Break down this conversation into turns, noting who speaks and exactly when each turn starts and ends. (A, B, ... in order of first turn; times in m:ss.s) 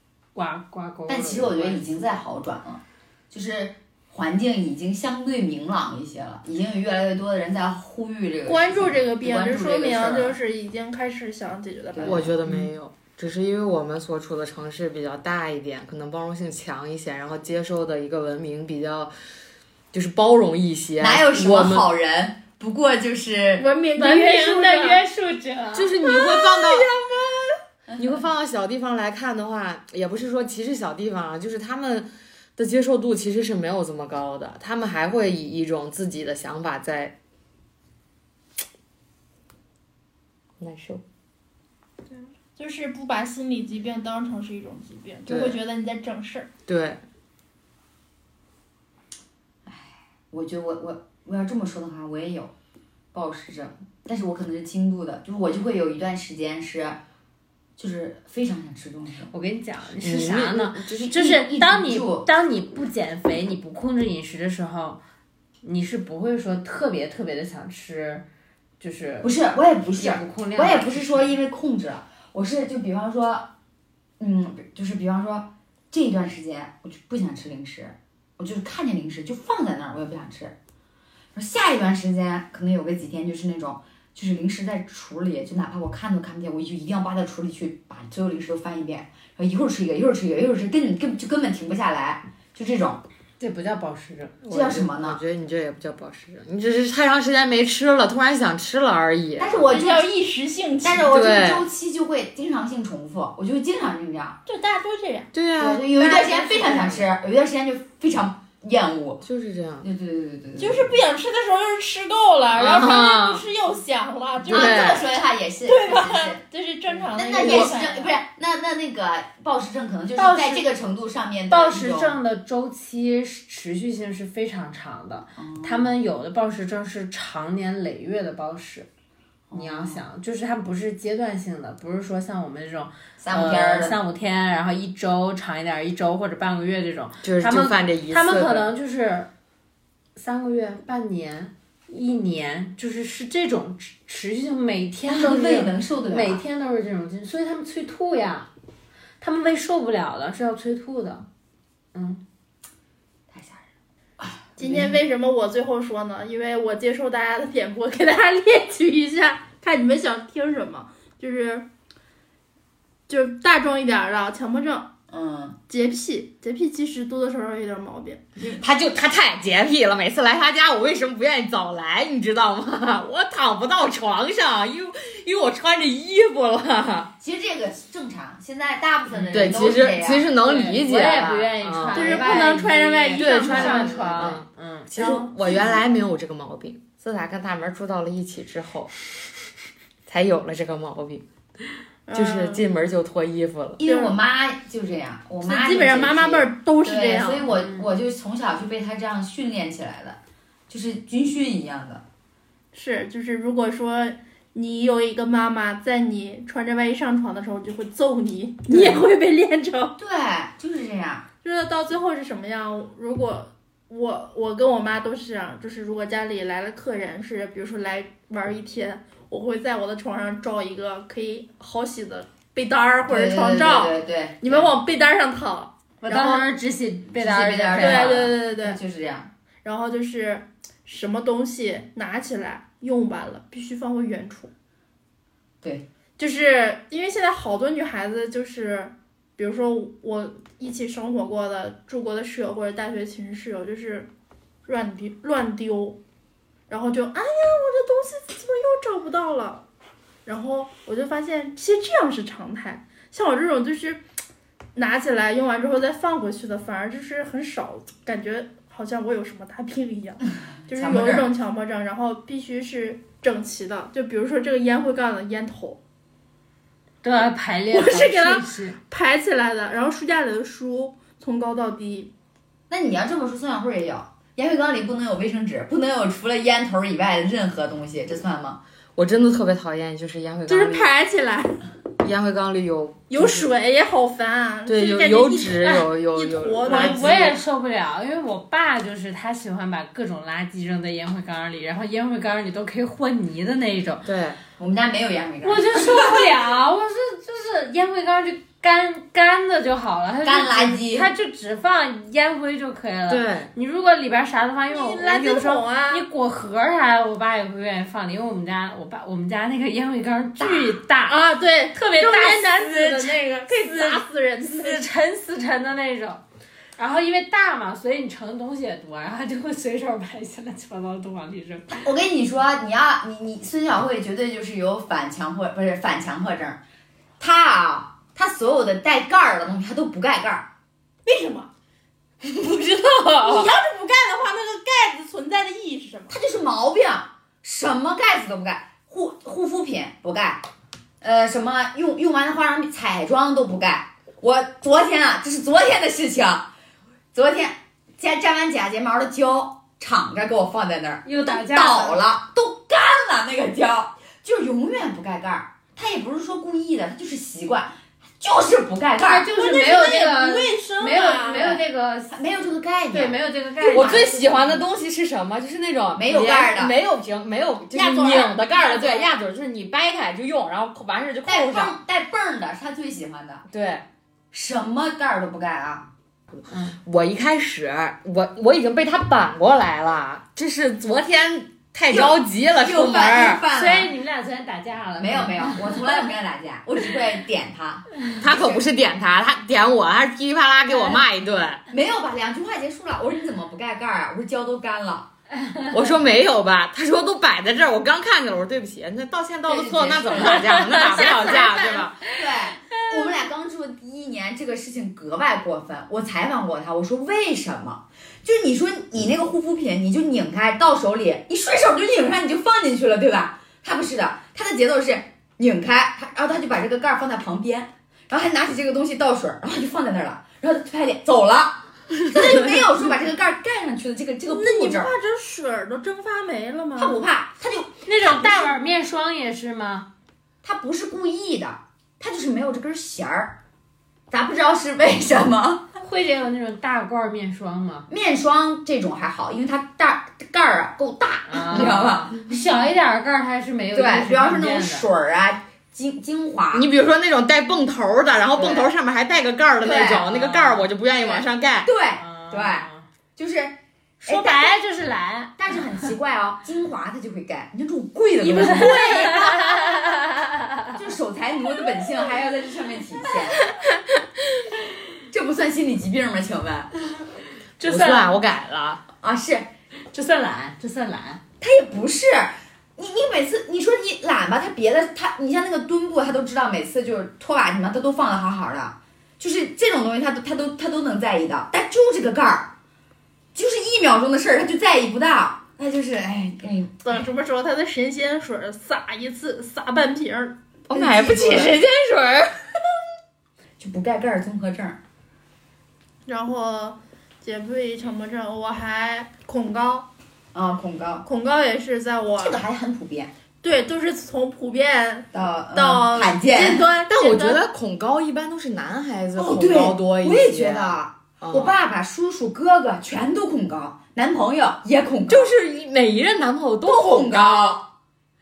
0:00.4-0:02.2 A
0:01.1-0:10.4 B
0:08.4-0:12.2 C
0:11.9-0:12.3 B
0:12.0-0:19.1 D
0:19.9-0:21.9 D
0:21.0-0:23.6 B
0:23.6-0:25.0 C
0:24.0-0:25.9 A
0:25.7-0:26.9 D
0:26.2-0:26.7 C
0:28.0-0:37.1 D
0:40.6-0:41.0 D
0:42.6-0:46.5 C
0:45.3-0:45.6 D
0:46.7-0:47.0 D
0:49.6-0:52.5 B
0:53.1-0:57.0 B
0:57.8-0:59.3 B
0:59.3-1:05.0 A
1:00.0-1:01.0 D
1:00.8-1:02.3 B
1:05.6-1:08.2 A
1:08.8-1:09.3 A
1:09.2-1:13.5 B
1:10.0-1:11.4 A
1:14.2-1:20.6 B
1:21.3-1:33.0 B
1:33.4-1:34.4 A
1:34.4-1:39.6 D
1:34.5-1:35.2 B
1:39.4-1:40.1 B
1:39.6-1:41.2 C
1:40.8-1:44.4 B
1:41.1-1:41.6 D
1:44.4-1:45.3 C
1:45.3-1:45.9 D
1:45.6-1:49.2 B
1:45.9-1:47.0 C
1:49.2-1:49.9 D
1:49.8-1:51.0 B
1:50.6-1:55.1 C
1:52.5-1:53.4 D
1:54.4-1:55.1 D
1:54.5-1:56.4 B
1:55.6-1:58.2 C
1:57.1-2:02.2 B
2:00.2-2:00.6 A
2:00.2-2:00.6 C
2:01.5-2:08.9 A
2:05.4-2:05.9 B
2:09.5-2:10.0 B
2:09.5-2:19.3 A
2:13.2-2:14.0 B
2:17.2-2:18.7 D
2:20.2-2:28.5 A
2:25.1-2:26.4 B
2:29.2-2:31.2 A
2:31.9-2:32.2 A
2:33.3-2:33.6 B
2:34.2-2:35.0 B
2:34.6-2:41.6 C
2:43.1-2:44.9 C
2:45.1-2:45.6 B
2:45.7-2:48.6 C
2:48.5-2:57.1 D
2:57.2-3:00.3 B
2:59.1-2:59.8 A
2:59.3-3:02.2 D
3:00.4-3:04.9 A
3:01.9-3:04.4 C
3:03.1-3:08.9 D
3:05.0-3:05.7 C
3:10.1-3:11.2 D
3:12.1-3:12.6 C
3:12.1-3:13.8 D
3:13.8-3:22.0 B
3:13.8-3:14.2 C
3:15.4-3:17.5 C
3:17.5-3:17.9 A
3:22.7-3:29.9 C
3:30.0-3:31.2 B
3:31.4-3:46.5 C
3:43.1-3:44.7 B
3:46.0-3:48.3 A
3:47.1-3:49.3 B
3:47.8-3:48.8 C
3:49.6-3:54.5 C
3:56.2-4:04.1 C
4:04.6-4:06.0 C
4:06.7-4:09.6 C
4:10.2-4:14.0 C
4:14.8-4:25.8 C
4:20.7-4:21.3 B
4:27.0-4:28.8 A
4:27.7-4:32.1 C
4:32.7-4:38.6 B
4:39.0-4:40.9 D
4:40.5-4:41.6 C
4:42.0-4:43.5 D
4:43.1-4:47.4 C
4:44.6-4:47.2 D
4:46.6-4:54.1 A
4:54.1-4:54.4 D
4:54.6-4:56.3 B
4:55.4-5:11.2 A
5:00.2-5:01.1 B
5:03.1-5:03.5 D
5:04.7-5:06.0 C
5:11.1-5:14.8 C
5:11.7-5:16.2 A
5:16.8-5:21.8 A
5:21.7-5:26.6 B
5:27.2-5:30.5 B
5:31.0-5:31.5 C
5:32.5-5:33.5 D
5:33.2-5:36.2 C
5:36.1-5:40.4 B
5:41.0-5:46.5 B
5:47.1-5:59.3 B
5:51.0-5:52.0 A
5:59.0-6:04.2 A
5:59.3-6:01.6 C
6:02.1-6:04.5 B
6:03.7-6:11.8 D
6:05.9-6:06.7 B
6:07.7-6:09.1 C
6:11.2-6:13.5 B
6:13.5-6:13.8 D
6:14.3-6:15.9 B
6:16.4-6:23.4 D
6:16.5-6:16.8 A
6:21.9-6:23.9 B
6:23.5-6:26.1 A
6:25.0-6:28.6 B
6:28.2-6:31.6 D
6:30.7-6:31.0 A
6:31.7-6:35.1 B
6:35.3-6:35.8 A
6:35.7-6:42.0 D
6:39.5-6:40.6 B
6:40.2-6:41.5 A
6:41.0-6:41.9 C
6:41.2-7:04.9 B
7:04.2-7:07.0 C
7:06.8-7:08.5 B
7:07.8-7:09.9 A
7:10.4-7:13.4 B
7:14.1-7:15.6 B
7:15.8-7:17.9 A
7:17.9-7:22.3 B
7:21.3-7:24.9 A
7:21.5-7:22.0 D
7:23.7-7:26.7 B
7:26.5-7:31.7 D
7:28.4-7:28.7 B
7:29.6-7:30.1 B
7:30.0-7:30.7 A
7:31.0-7:34.6 B
7:32.0-7:32.9 A
7:34.0-7:35.9 A
7:35.4-7:39.2 B
7:38.2-7:40.7 A
7:40.7-7:43.4 B
7:45.1-7:46.7 B
7:47.6-7:48.2 A
7:47.6-7:48.8 D
7:49.0-7:49.5 B
7:49.9-7:51.2 A
7:51.4-8:02.5 B
8:03.3-8:06.8 B
8:06.8-8:10.4 C
8:10.7-8:12.3 D
8:10.7-8:11.6 B
8:13.6-8:14.8 B
8:16.1-8:19.9 C
8:20.3-8:21.0 B
8:21.0-8:22.4 C
8:22.2-8:23.1 B
8:23.4-8:27.4 C
8:25.1-8:26.7 B
8:26.9-8:31.6 D
8:29.2-8:35.3 B
8:35.1-8:37.6 D
8:36.6-8:37.7 B